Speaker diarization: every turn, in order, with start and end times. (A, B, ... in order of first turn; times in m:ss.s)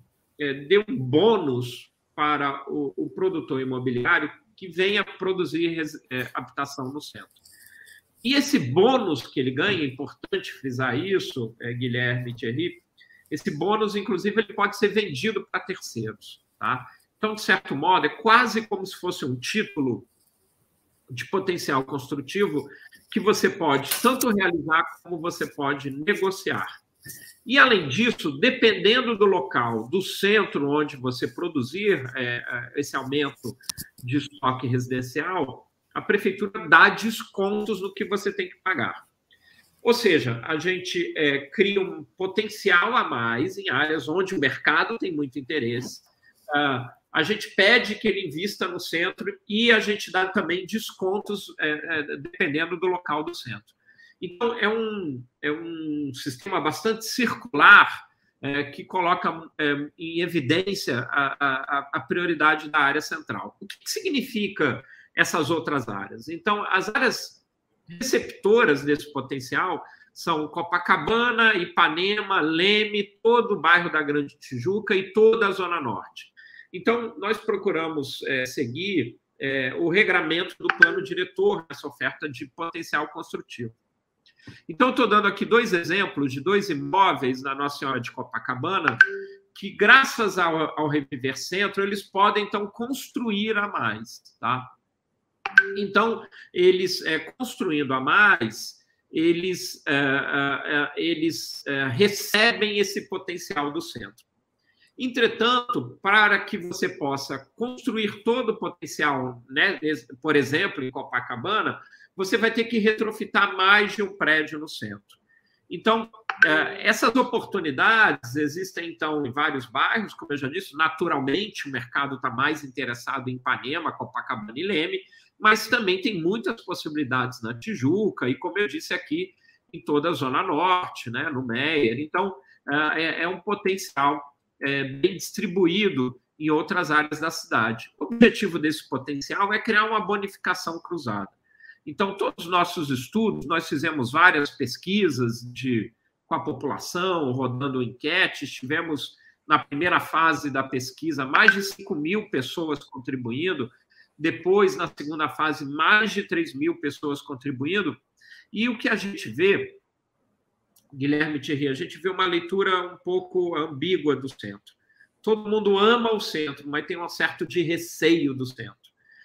0:00.4-0:07.4 A
0:08.2-0:20.1 A
0:21.1-0:26.7 A
0:27.5-0:39.0 A
0:39.8-1:23.8 A
1:24.7-1:29.0 A
1:29.5-1:34.7 A
1:35.8-1:44.2 A
1:45.0-1:55.2 A
1:55.7-2:21.3 A
2:21.8-2:38.0 A
2:38.5-2:39.8 A
2:40.9-2:48.9 A